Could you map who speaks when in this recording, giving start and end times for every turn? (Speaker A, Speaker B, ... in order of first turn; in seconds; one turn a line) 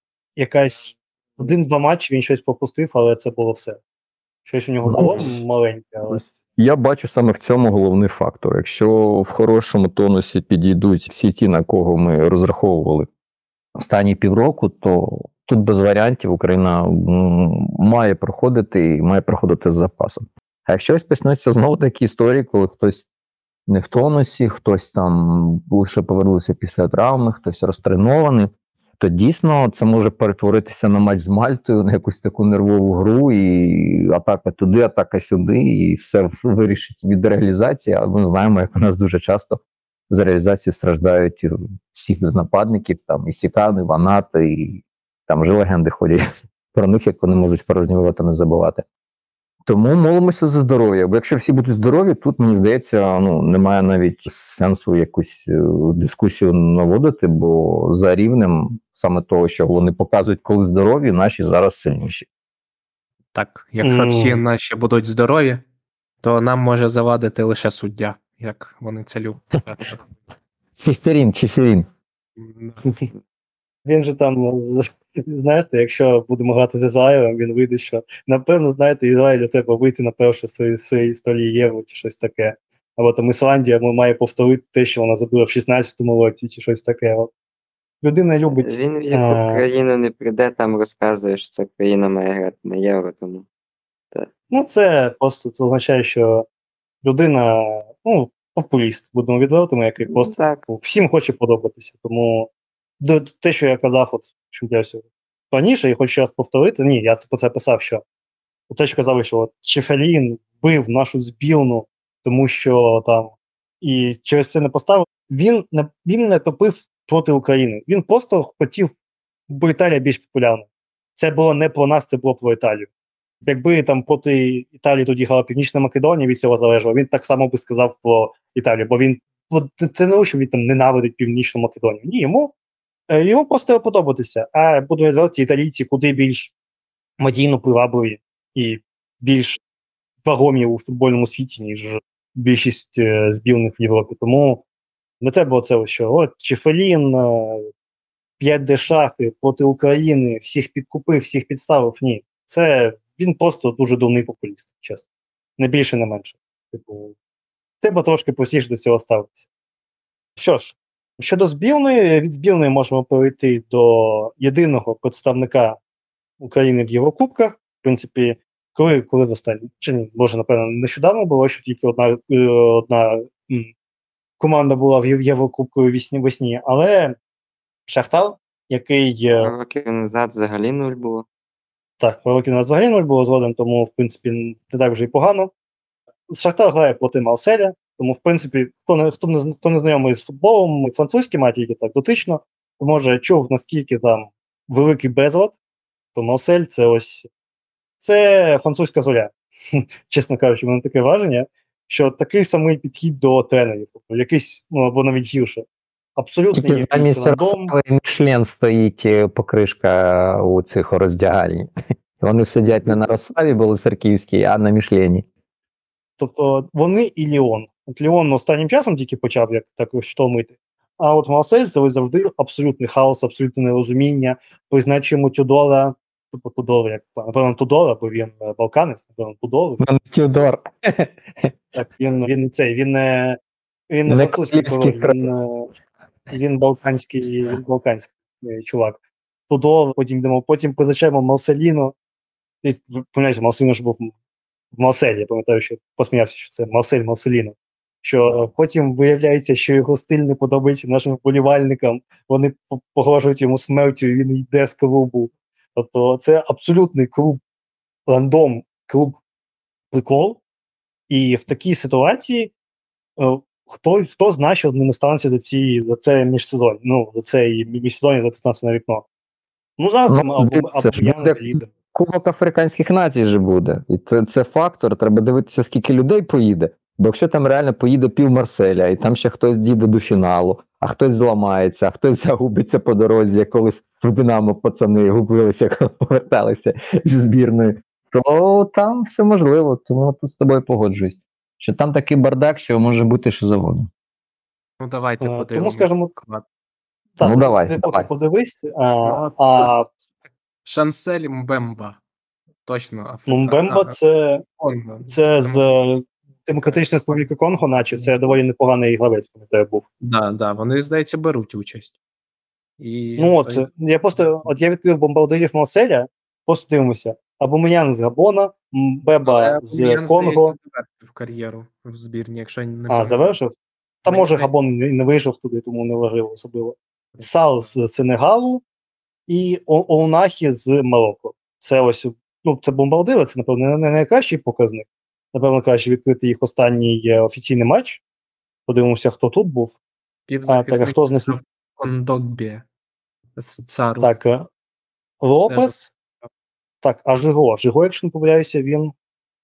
Speaker A: 0.3-3.8
Speaker A: 4.5-6.2
Speaker B: 4.8-5.4
Speaker B: 6.1-13.1
Speaker B: 13.7-23.0
Speaker B: 23.7-46.2
Speaker B: 46.7-48.8
Speaker B: 49.6-62.2
Speaker C: 63.3-65.6
Speaker A: 63.8-64.4
Speaker C: 66.2-70.0
Speaker B: 70.8-71.9
Speaker C: 72.4-72.8
Speaker A: 73.8-87.3
Speaker A: 88.0-89.7
Speaker D: 88.5-93.4
Speaker A: 94.5-96.5
Speaker A: 97.0-108.0
Speaker D: 100.1-100.6
Speaker A: 108.7-118.9
Speaker A: 119.5-122.9
Speaker A: 123.4-132.5
Speaker A: 133.1-136.5
Speaker A: 137.2-139.6
Speaker A: 140.2-144.6
Speaker A: 145.2-147.7
Speaker A: 148.4-155.0
Speaker A: 155.6-157.1
Speaker A: 157.8-159.5
Speaker A: 160.4-165.8
Speaker A: 166.4-173.7
Speaker A: 174.4-177.2
Speaker A: 177.9-179.5
Speaker D: 179.3-181.2
Speaker A: 182.0-185.5
Speaker A: 186.3-195.6
Speaker A: 196.1-197.3
Speaker A: 198.0-205.6
Speaker A: 206.2-207.7
Speaker B: 206.5-215.2
Speaker A: 216.2-229.8
Speaker B: 229.8-231.5
Speaker A: 231.7-233.4
Speaker A: 233.9-235.7
Speaker B: 234.1-235.3
Speaker A: 236.3-239.0
Speaker A: 239.5-241.9
Speaker A: 242.6-244.1
Speaker A: 244.7-257.4
Speaker A: 258.1-259.2
Speaker A: 259.9-260.4
Speaker A: 261.1-262.5
Speaker A: 263.2-269.0
Speaker A: 269.8-271.7
Speaker B: 270.1-293.9
Speaker C: 294.8-296.4
Speaker A: 295.2-296.1
Speaker A: 297.2-299.9
Speaker B: 297.2-298.1
Speaker C: 299.0-299.7
Speaker C: 300.6-302.0
Speaker C: 302.6-303.9
Speaker A: 303.3-304.4
Speaker C: 304.6-305.6
Speaker A: 305.1-309.8
Speaker C: 310.0-311.9
Speaker C: 312.8-313.7
Speaker A: 313.2-320.5
Speaker C: 319.2-323.4
Speaker A: 322.9-328.6
Speaker C: 324.1-324.5
Speaker C: 327.1-327.6
Speaker A: 329.3-338.0
Speaker A: 338.7-339.8
Speaker C: 340.3-342.6
Speaker A: 340.5-341.4
Speaker C: 343.4-344.1
Speaker A: 344.0-344.5
Speaker A: 345.2-345.9
Speaker C: 345.5-345.7
Speaker A: 346.8-348.9